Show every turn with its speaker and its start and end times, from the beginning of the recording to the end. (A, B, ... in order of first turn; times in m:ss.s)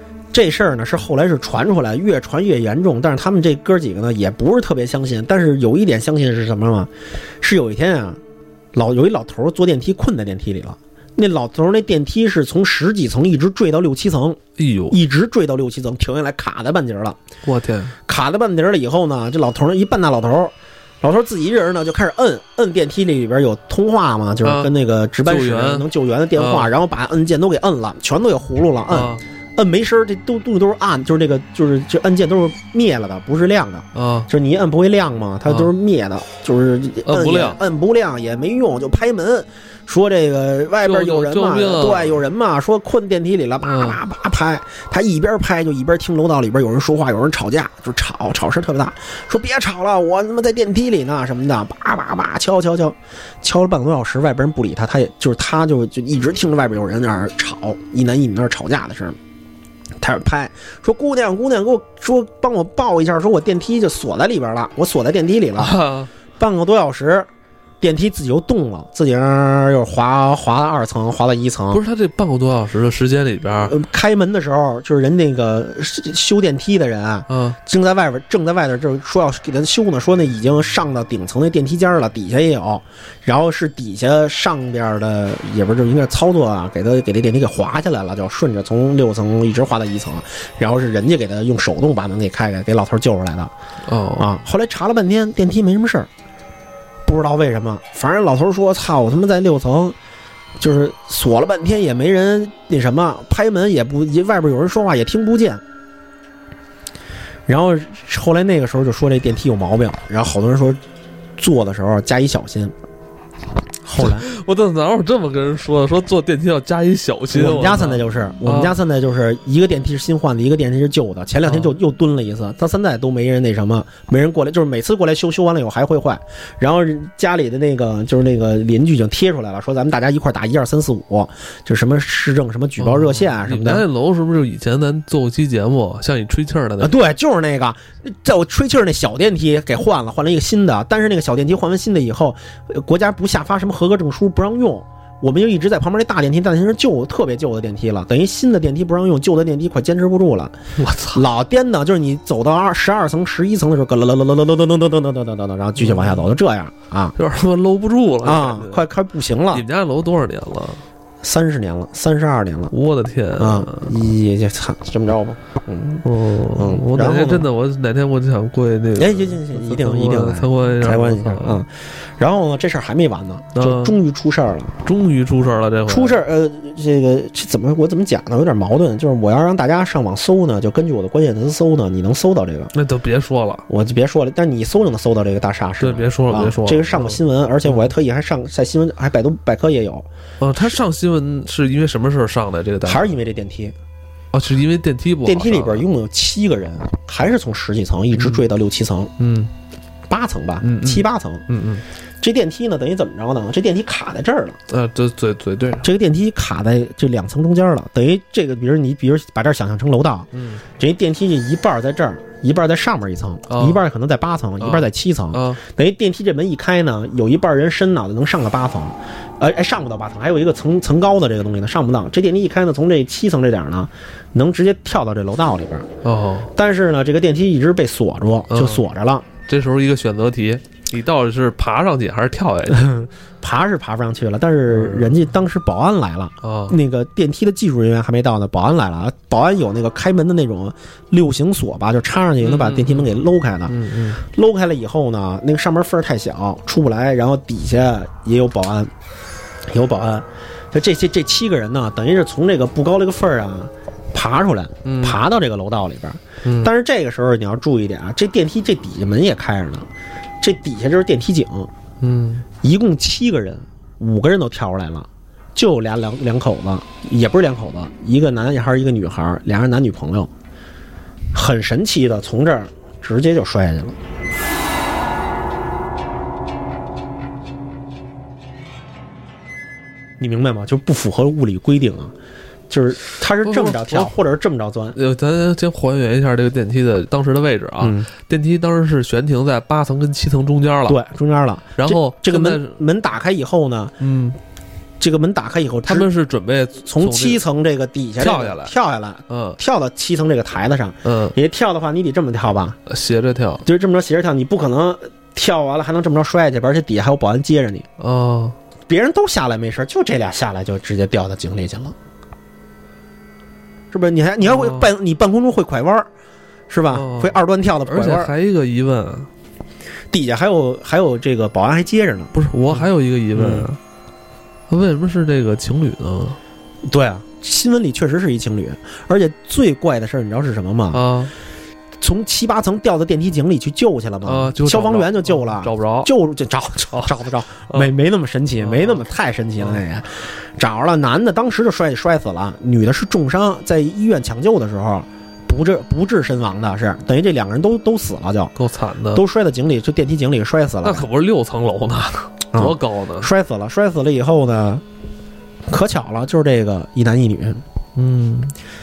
0:00.3-0:08.2 A
0:08.7-0:17.2 A
0:14.6-0:15.0 B
0:17.4-0:18.0 B
0:18.1-0:59.2 A
0:24.4-0:25.8 B
0:26.4-0:26.7 B
0:28.9-0:29.2 B
0:33.9-0:34.3 B
0:37.0-0:37.6 B
0:40.8-0:42.2 B
0:43.6-0:44.0 B
1:00.0-1:05.8 A
1:05.6-1:06.1 B
1:06.4-1:07.3 A
1:07.8-1:11.8 A
1:11.7-1:13.7 B
1:13.6-1:33.5 A
1:17.3-1:17.6 B
1:33.9-1:34.3 B
1:34.2-1:36.1 A
1:37.0-1:40.0 A
1:40.6-1:45.6 A
1:47.5-1:50.8 A
1:51.4-1:52.7 A
1:53.8-1:54.3 A
1:54.0-1:58.8 B
1:57.3-2:13.9 A
2:01.4-2:01.7 B
2:12.8-2:16.9 B
2:16.8-2:30.6 A
2:30.8-2:31.2 B
2:31.1-2:37.2 A
2:35.8-2:36.2 B
2:37.2-2:38.8 B
2:38.2-2:39.6 A
2:39.5-2:40.8 B
2:41.2-2:42.7 A
2:42.7-2:43.9 B
2:43.4-2:47.5 A
2:46.0-2:51.6 B
2:49.0-2:54.8 A
2:53.5-2:54.0 B
2:54.8-2:56.2 B
2:55.9-3:02.7 A
3:02.7-3:03.6 B
3:03.7-3:10.8 A
3:05.8-3:07.9 B
3:10.4-3:13.1 B
3:12.8-3:13.7 A
3:14.3-3:15.9 B
3:15.2-3:19.1 A
3:18.1-3:18.4 B
3:19.2-3:19.5 B
3:20.1-3:21.4 A
3:20.6-3:21.8 B
3:22.2-3:24.6 A
3:24.7-3:25.9 B
3:25.8-3:45.9 A
3:30.3-3:30.6 B
3:33.5-3:33.8 B
3:34.6-3:35.6 B
3:46.0-3:46.5 B
3:46.5-3:49.3 A
3:48.5-3:48.8 B
3:49.4-3:52.9 B
3:52.7-4:08.9 A
3:54.7-3:55.2 B
3:56.4-3:56.8 B
4:02.4-4:03.1 B
4:03.7-4:04.2 B
4:09.7-4:19.9 A
4:14.8-4:15.2 B
4:16.4-4:16.7 B
4:20.4-4:21.7 A
4:22.0-4:22.4 B
4:22.6-4:30.3 A
4:31.3-4:34.0 A
4:40.2-4:42.1 A
4:42.7-4:45.0 A
4:43.4-4:44.2 B
4:44.9-4:51.0 B
4:47.8-4:48.1 A
4:50.8-4:54.0 A
4:51.8-4:52.8 B
4:54.0-4:54.4 B
4:55.0-4:56.1 A
4:55.8-4:57.4 B
4:56.8-5:02.8 A
4:58.2-4:58.7 B
4:59.3-4:59.6 B
5:01.0-5:01.3 B
5:02.8-5:03.6 B
5:03.6-5:07.9 A
5:08.0-5:08.6 B
5:08.9-5:11.9 A
5:13.9-5:16.1 A
5:14.4-5:14.9 B
5:16.7-5:18.3 A
5:16.9-5:19.3 B
5:20.1-5:22.8 A
5:22.3-5:23.8 B
5:23.3-5:23.7 A
5:24.7-5:26.4 B
5:26.8-5:31.0 A
5:30.9-5:31.3 B
5:32.0-5:48.5 A
5:34.2-5:36.1 B
5:38.6-5:39.8 B
5:48.6-5:49.2 B
5:49.1-5:51.1 A
5:50.8-5:53.3 B
5:52.5-5:54.8 A
5:55.7-5:57.6 A
5:58.0-5:58.5 B